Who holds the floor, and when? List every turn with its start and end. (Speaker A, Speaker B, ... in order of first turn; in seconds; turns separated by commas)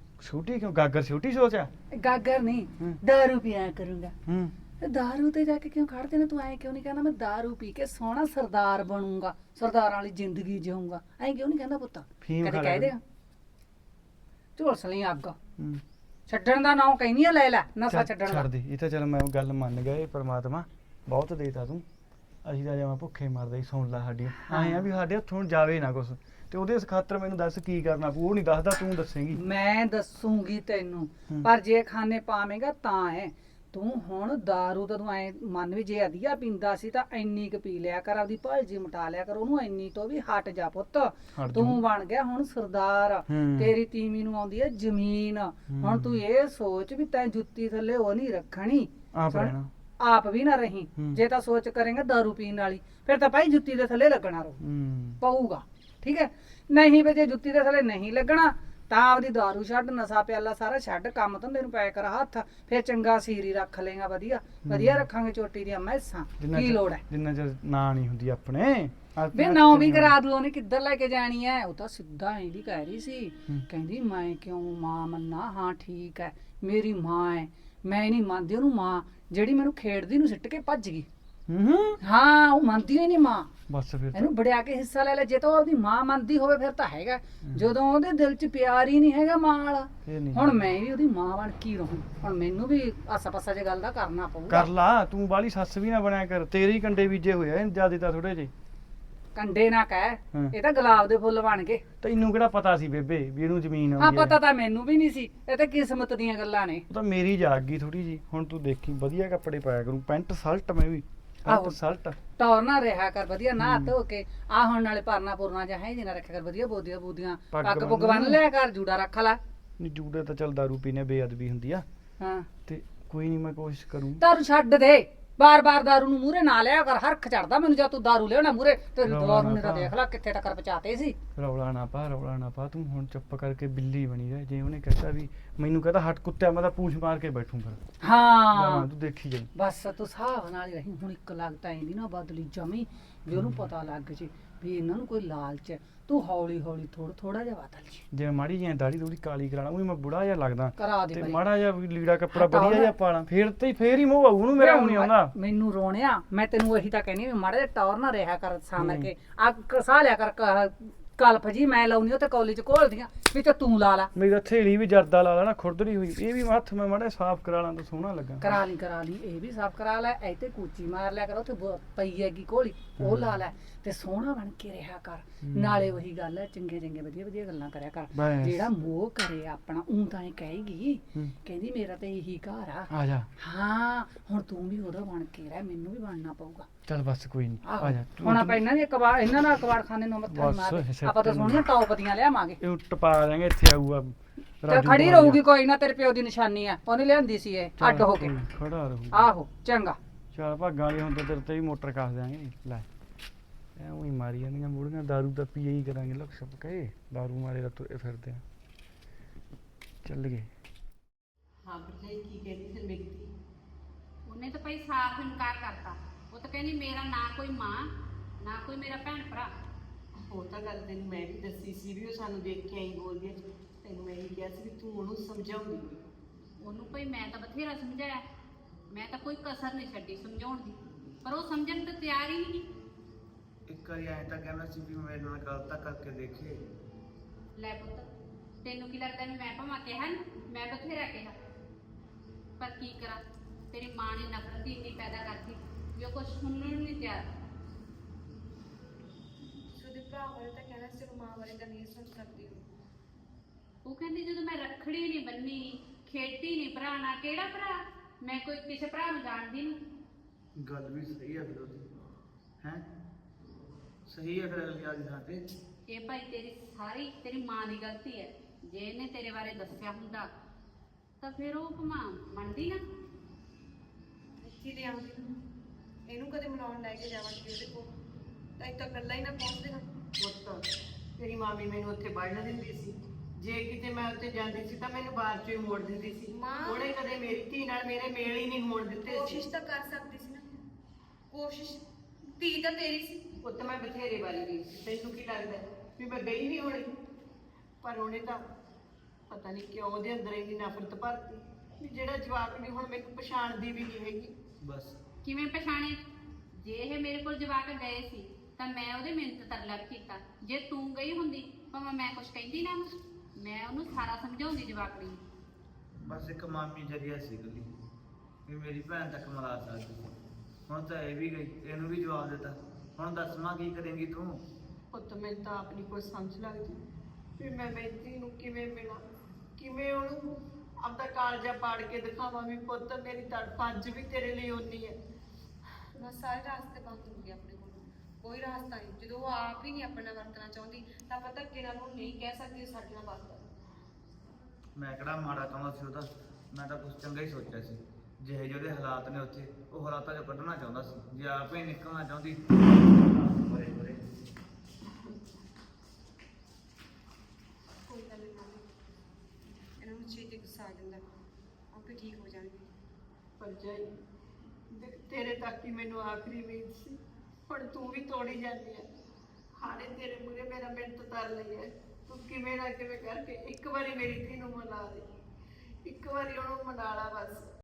Speaker A: 0.2-1.7, Speaker B: 1.9-4.1, Speaker A: 4.3-4.5, Speaker B: 4.8-13.0, Speaker A: 12.2-12.9, Speaker B: 14.6-15.3, Speaker B: 16.3-18.5, Speaker A: 17.9-21.8, Speaker A: 22.4-29.4, Speaker B: 24.4-24.9, Speaker B: 29.3-54.6, Speaker A: 41.4-41.8, Speaker A: 43.3-43.7, Speaker A: 45.7-46.2, Speaker A: 49.1-49.7, Speaker A: 51.0-51.2, Speaker A: 54.6-55.2, Speaker B: 55.2-67.0, Speaker A: 64.6-65.1, Speaker A: 66.4-70.2, Speaker B: 69.3-81.1, Speaker A: 81.5-82.0, Speaker B: 82.0-83.5, Speaker A: 83.7-84.3, Speaker B: 84.1-94.7, Speaker A: 90.0-90.6, Speaker A: 94.5-98.5, Speaker B: 99.3-101.8, Speaker A: 102.0-104.4, Speaker B: 104.0-106.8, Speaker A: 106.9-112.2, Speaker B: 111.5-111.8, Speaker B: 112.4-119.4, Speaker A: 113.6-113.9, Speaker A: 117.5-118.4, Speaker A: 119.8-121.8, Speaker B: 122.2-122.5, Speaker A: 122.7-124.2, Speaker B: 124.2-131.2, Speaker A: 129.0-129.9, Speaker A: 131.4-137.8, Speaker B: 138.0-138.9, Speaker A: 138.5-139.5, Speaker B: 139.6-148.0, Speaker A: 143.3-143.7, Speaker A: 148.1-155.3, Speaker B: 150.8-151.4, Speaker B: 152.3-152.9, Speaker B: 154.5-164.1, Speaker A: 158.8-159.1, Speaker A: 164.1-168.6, Speaker B: 168.4-186.7, Speaker A: 173.0-173.3, Speaker A: 175.4-175.9, Speaker A: 178.1-178.6, Speaker A: 182.9-183.3, Speaker A: 186.9-188.6, Speaker B: 187.6-192.6, Speaker A: 190.3-191.6, Speaker A: 192.6-195.4, Speaker B: 194.7-198.4, Speaker A: 197.8-199.3, Speaker B: 199.1-200.0, Speaker A: 200.3-202.8, Speaker A: 203.8-208.4, Speaker A: 210.0-210.5, Speaker C: 211.7-213.3, Speaker D: 214.3-217.9, Speaker D: 218.4-219.5, Speaker C: 220.3-226.0, Speaker D: 226.6-228.2, Speaker D: 228.9-232.6, Speaker E: 233.7-236.5, Speaker D: 237.6-238.1, Speaker D: 238.6-241.3, Speaker D: 242.6-247.2, Speaker F: 249.7-252.6, Speaker D: 253.8-259.8, Speaker E: 260.6-261.9, Speaker E: 264.1-265.4, Speaker D: 265.9-270.3, Speaker D: 271.2-272.8, Speaker F: 274.4-275.3, Speaker F: 276.1-277.9, Speaker F: 278.6-279.9, Speaker C: 280.2-280.6, Speaker C: 281.2-289.4, Speaker F: 286.3-286.9, Speaker F: 289.0-290.4, Speaker F: 291.3-291.8, Speaker F: 292.4-293.1, Speaker C: 293.4-296.9, Speaker C: 297.8-298.4, Speaker C: 299.3-304.3, Speaker E: 304.6-304.9, Speaker D: 305.2-306.0, Speaker D: 306.6-315.2, Speaker E: 316.0-317.7, Speaker E: 318.5-320.1, Speaker E: 320.7-324.3, Speaker C: 324.9-326.8, Speaker C: 327.4-329.0, Speaker C: 329.6-330.2, Speaker C: 330.8-334.9, Speaker F: 336.0-343.4, Speaker E: 344.8-354.0, Speaker F: 357.9-358.6, Speaker F: 359.8-361.0, Speaker F: 361.7-362.7, Speaker C: 363.4-363.9, Speaker C: 364.7-367.0, Speaker C: 367.5-368.9, Speaker C: 369.6-375.1, Speaker C: 375.9-377.4